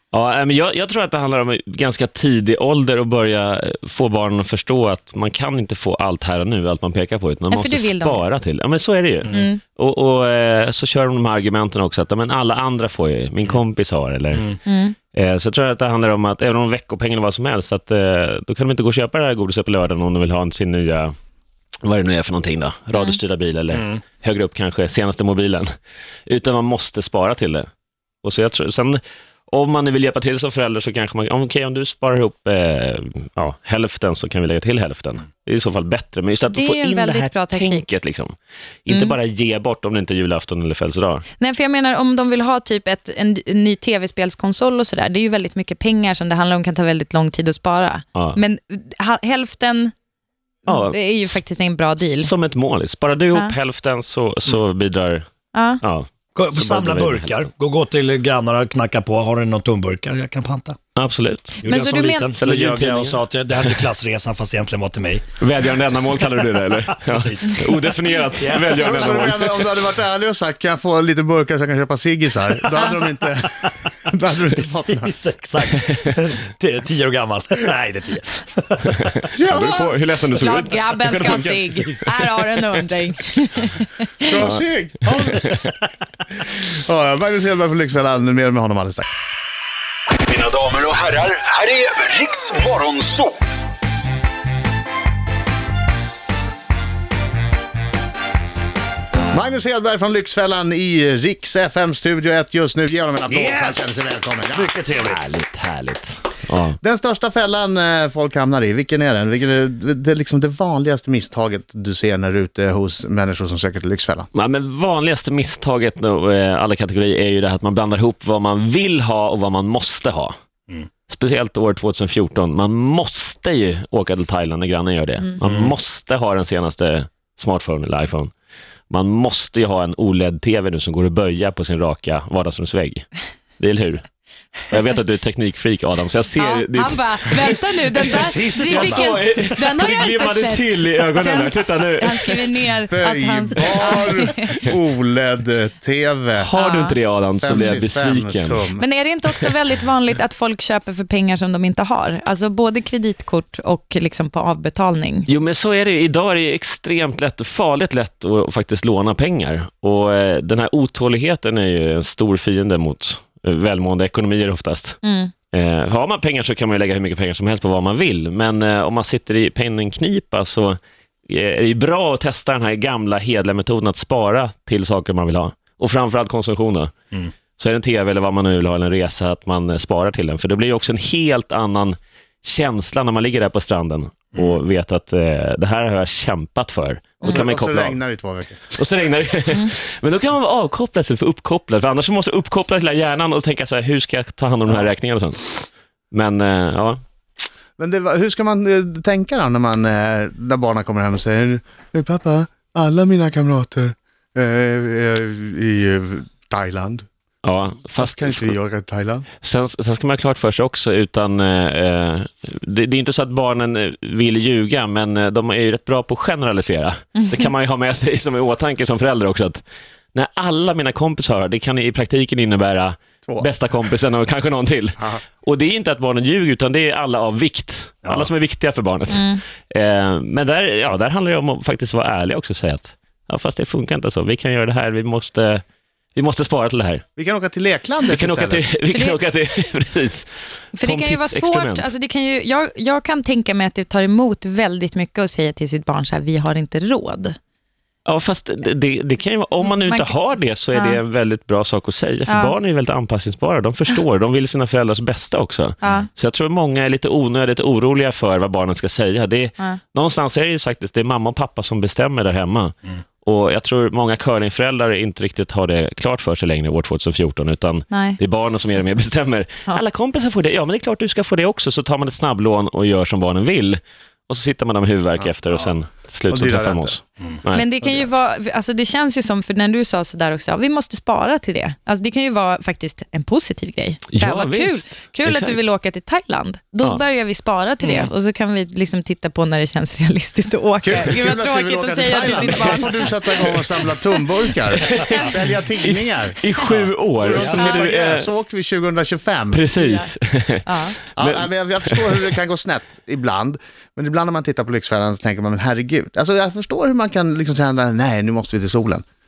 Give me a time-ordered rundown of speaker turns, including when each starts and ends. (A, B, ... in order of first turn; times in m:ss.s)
0:00.1-0:14.6 A
0:07.5-0:08.2 B
0:09.3-0:09.6 B
0:14.3-0:14.6 C
0:14.7-0:15.0 B
0:15.1-0:21.2 A
0:21.8-0:25.7 A
0:23.7-0:24.0 C
0:26.3-0:27.7 A
0:28.2-0:41.3 A
0:36.5-0:37.9 B
0:38.9-0:39.2 B
0:41.4-0:49.9 B
0:50.7-0:52.3 B
0:50.7-0:51.4 A
0:52.1-0:55.3 A
0:55.5-0:55.8 B
0:55.8-0:57.5 A
0:56.4-1:00.8 C
1:01.0-1:01.6 A
1:01.6-1:09.5 C
1:01.6-1:02.3 B
1:02.4-1:03.9 A
1:05.4-1:09.6 A
1:08.8-1:15.1 D
1:12.7-1:19.3 C
1:19.3-1:22.1 A
1:19.3-1:20.0 D
1:20.3-1:24.3 B
1:21.1-1:21.5 C
1:24.2-1:25.5 D
1:26.4-1:29.1 D
1:30.9-1:33.2 E
1:31.5-1:33.1 C
1:39.3-1:44.8 D
1:43.3-1:44.0 C
1:44.5-1:45.3 C
1:45.0-1:46.8 A
1:46.8-1:54.3 D
1:54.3-2:00.4 A
2:01.1-2:08.3 A
2:05.4-2:05.7 C
2:08.9-2:17.6 A
2:16.4-2:24.6 B
2:17.4-2:19.6 C
2:18.6-2:22.5 A
2:22.9-2:26.5 D
2:26.4-2:28.6 A
2:26.5-2:27.0 B
2:27.4-2:28.8 D
2:28.8-2:35.3 B
2:35.3-2:45.0 A
2:45.0-2:45.3 B
2:45.5-2:56.9 A
2:57.6-3:08.0 A
3:04.4-3:04.6 C
3:07.2-3:08.7 D
3:08.7-3:17.0 A
3:17.8-3:27.1 D
3:27.4-3:28.6 A
3:28.0-3:29.3 D
3:29.4-3:39.6 A
3:37.2-3:37.4 B
3:40.1-3:55.6 A
3:43.2-3:43.5 D
3:49.1-3:49.4 B
3:56.2-3:57.0 A
3:57.2-3:58.7 D
3:58.1-4:01.9 A
3:58.9-3:59.2 B
4:00.7-4:07.4 B
4:08.0-4:37.6 A
4:09.8-4:10.1 B
4:10.7-4:11.0 B
4:12.3-4:12.5 B
4:15.8-4:16.1 B
4:27.9-4:28.2 B
4:36.3-4:37.0 D
4:37.5-4:53.9 B
4:44.1-4:45.6 A
4:50.8-4:56.4 D
4:54.8-4:55.3 A
4:55.8-4:58.3 A
4:57.2-4:59.6 D
4:57.4-4:57.9 B
4:59.5-5:02.4 A
4:59.8-5:00.1 B
5:00.7-5:01.0 B
5:01.2-5:09.0 D